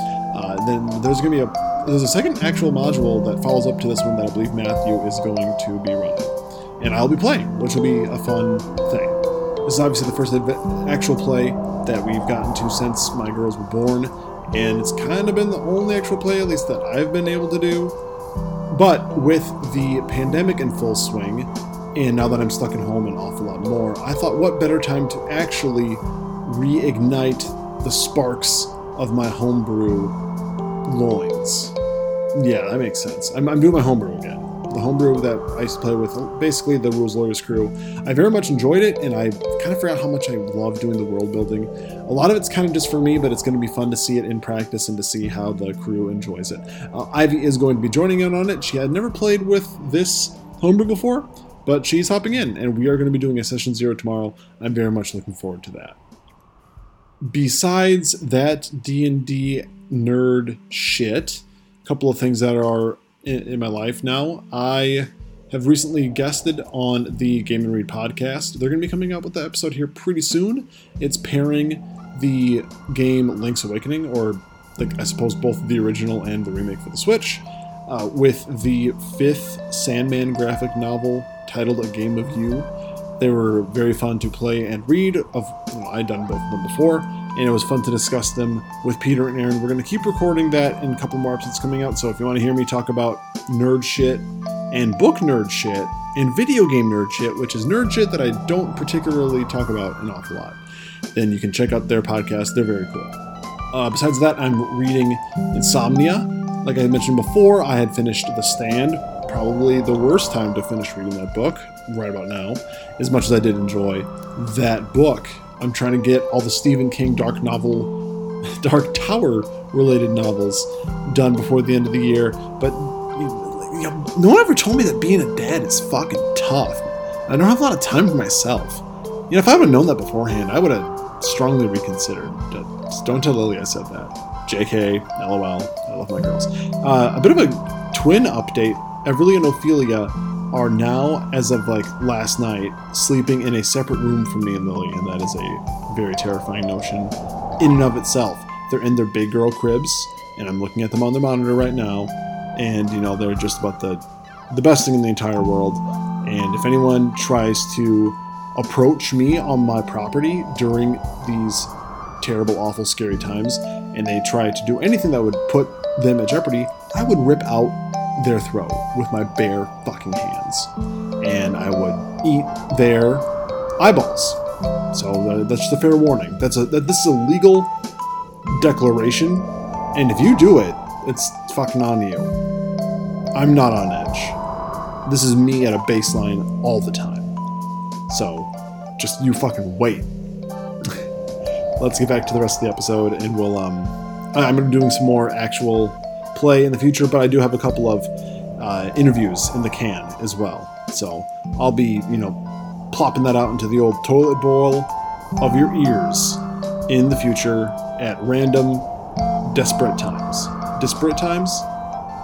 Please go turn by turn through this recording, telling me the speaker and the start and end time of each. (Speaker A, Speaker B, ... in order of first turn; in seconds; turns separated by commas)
Speaker A: 0.3-17.9, Speaker A: 18.7-30.1, Speaker A: 30.9-31.7, Speaker A: 32.3-56.0, Speaker A: 57.2-100.6, Speaker A: 101.1-103.2, Speaker A: 103.7-117.9, Speaker A: 118.4-173.3, Speaker A: 173.8-174.4, Speaker A: 174.9-177.7, Speaker A: 178.5-182.3, Speaker A: 183.3-184.4, Speaker A: 185.1-187.3, Speaker A: 188.1-190.1, Speaker A: 191.8-202.4, Speaker A: 202.9-208.9, Speaker A: 209.4-211.7